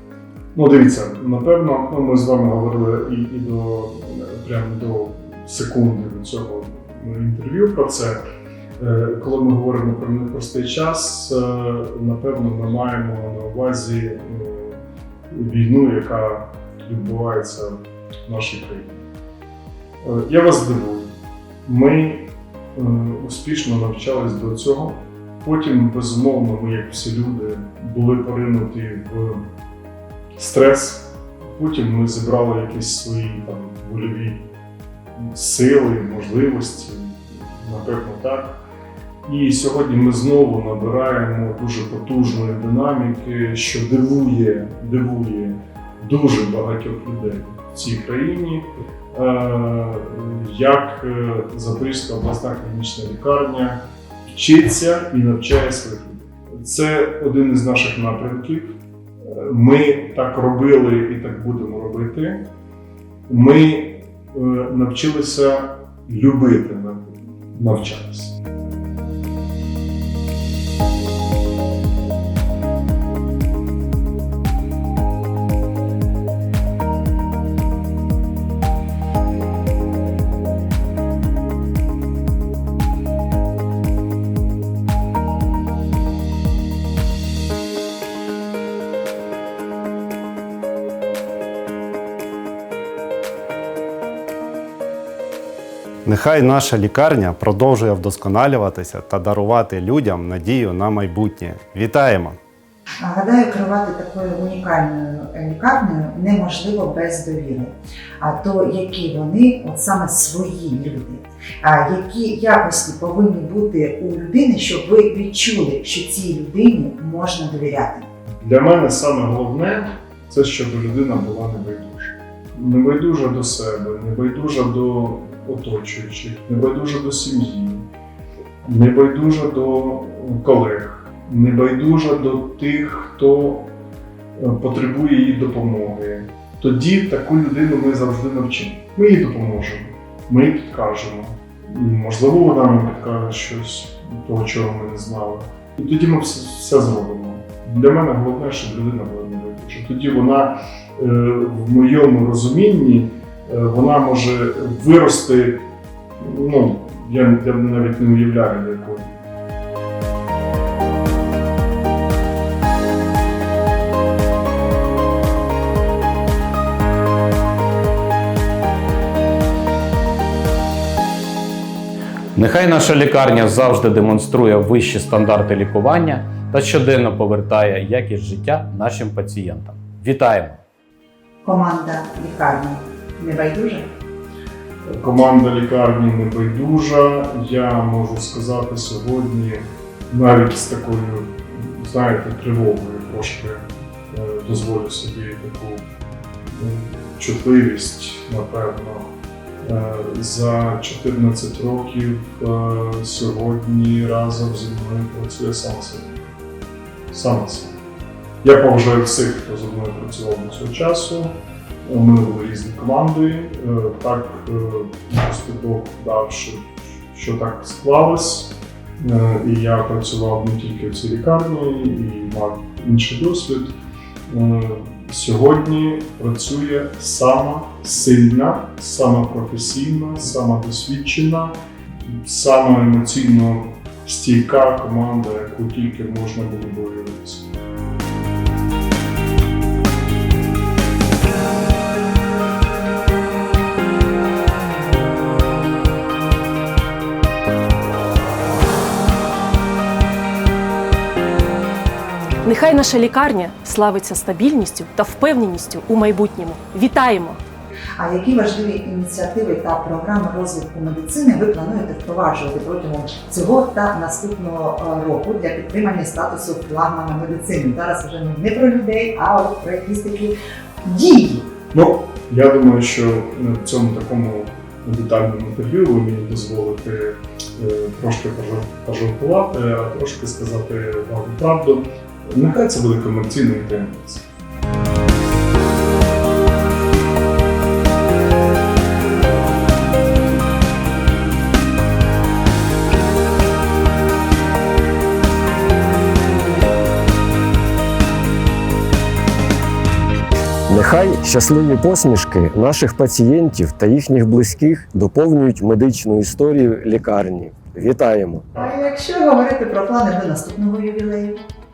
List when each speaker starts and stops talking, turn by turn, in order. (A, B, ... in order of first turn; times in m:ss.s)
0:00.5-0:08.2 A
0:08.8-0:14.8 A
0:15.3-0:19.0 A
0:20.0-0:29.4 A
0:30.4-0:34.4 A
0:35.2-0:38.6 A
0:39.2-1:02.4 A
1:03.3-1:08.3 A
1:36.0-1:42.4 B
1:43.0-1:58.1 C
1:58.3-2:07.8 A
2:08.6-2:13.7 A
2:14.4-2:39.1 A
2:52.4-3:00.6 D
3:01.4-3:03.9 C
3:04.9-3:15.8 A
3:16.5-3:19.1 A
3:19.6-3:26.3 A
3:27.1-3:27.8 A
3:28.4-3:43.8 A
3:44.3-3:57.5 A
4:12.4-4:17.4 E
4:18.0-4:31.5 C
4:31.7-4:44.2 A
5:00.7-5:08.4 F
5:08.6-5:11.4 C